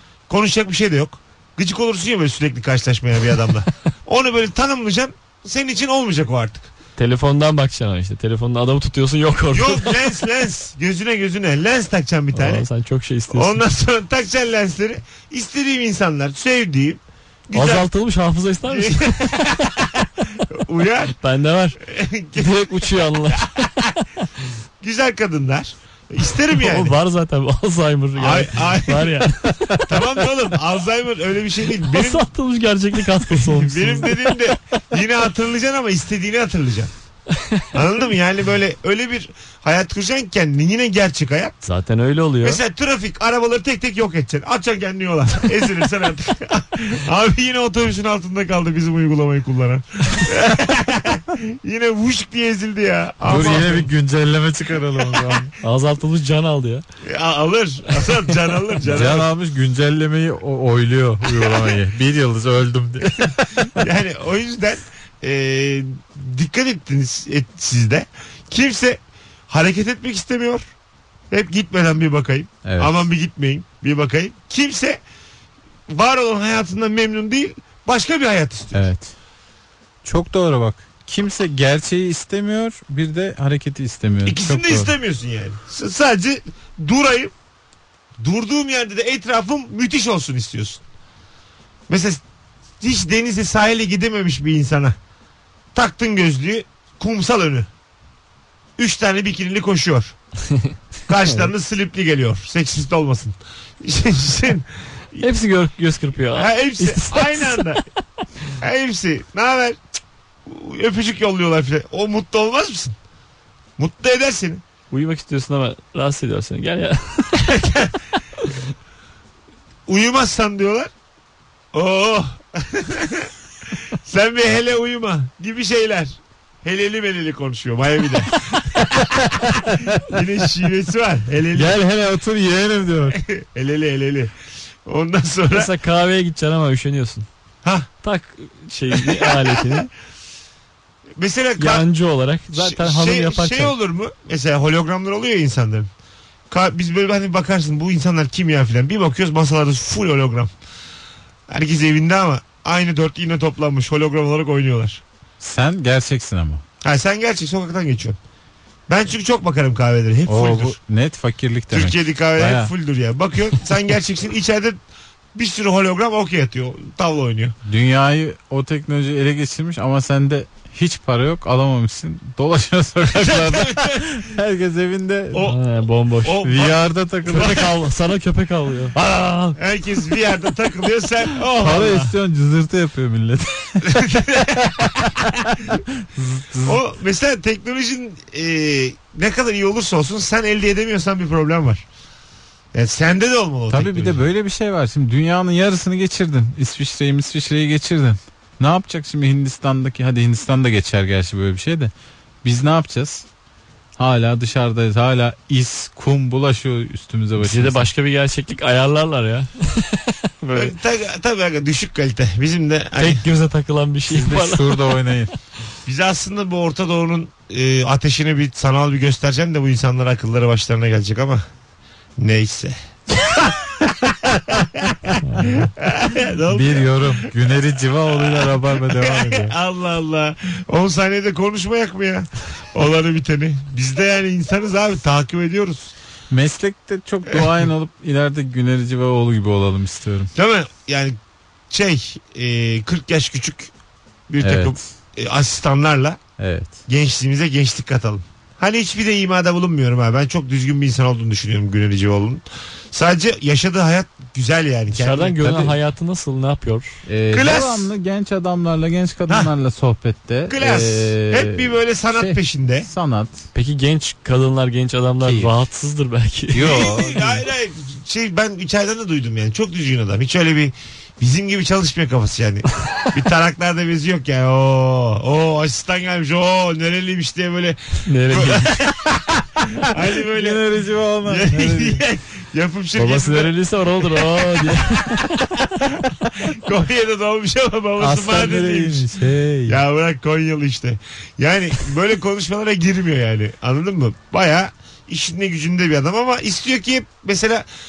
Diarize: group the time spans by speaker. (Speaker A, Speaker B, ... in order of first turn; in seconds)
Speaker A: 0.3-6.7, 9.5-12.7, 13.3-17.9, 18.7-21.1, 21.9-22.5, 24.8-26.9, 28.2-29.2, 29.9-32.2, 33.3-36.9, 37.7-41.5, 42.4-53.9, 57.0-59.3, 63.8-70.6, 71.3-75.0, 75.9-78.8, 84.2-87.3, 88.2-90.8, 91.9-92.2, 92.8-95.0, 95.7-97.7, 98.8-100.1, 101.1-104.7, 106.3-107.8, 108.6-109.8, 110.5-113.0, 113.8-114.6, 117.4-117.9, 119.9-120.9, 121.7-123.3, 124.0-131.7, 133.1-134.3, 134.8-135.7, 139.1-139.7, 141.2-141.8, 142.5-145.9, 146.5-150.5, 151.5-155.0, 156.8-158.2, 158.9-160.8, 161.7-164.8, 165.3-167.5, 173.2-174.2, 175.3-175.6, 176.2-177.7, 179.0-182.1, 183.9-185.2, 186.7-191.8, 192.7-194.2, 210.5-213.2, 215.8-221.4, 222.2-227.3, 228.1-235.9, 240.3-241.2, 241.7-243.7, 244.3-246.2, 246.9-255.4, 257.3-257.9, 260.5-262.9, 266.6-280.7, 281.2-283.5, 286.5-289.0, 289.7-297.6
Speaker B: 7.0-10.1, 12.3-13.6, 17.5-19.5, 21.2-21.8, 22.4-23.7, 26.5-30.1, 31.8-34.4, 37.4-37.6, 41.6-42.6, 53.3-53.6, 55.6-56.8, 105.2-107.8, 114.9-117.5, 135.5-137.3, 138.0-139.9, 141.6-143.7, 175.4-176.5, 177.3-179.0, 207.4-210.7, 213.0-214.8, 225.2-225.7, 254.9-256.9, 263.5-266.9, 278.1-278.9, 282.9-285.3
Speaker C: 53.2-55.5, 58.9-63.8, 72.6-73.1, 78.7-79.1, 80.0-84.9, 131.5-133.2, 155.4-156.6, 160.3-162.7, 167.7-175.5, 176.4-177.6, 181.6-186.8, 193.7-201.9, 202.4-203.2, 204.0-207.9, 214.1-215.3, 226.5-229.5, 236.3-240.3, 244.4-244.9, 246.4-246.8, 255.4-255.7, 257.1-263.4, 265.2-265.5, 266.5-267.4, 280.3-282.0, 288.0-289.8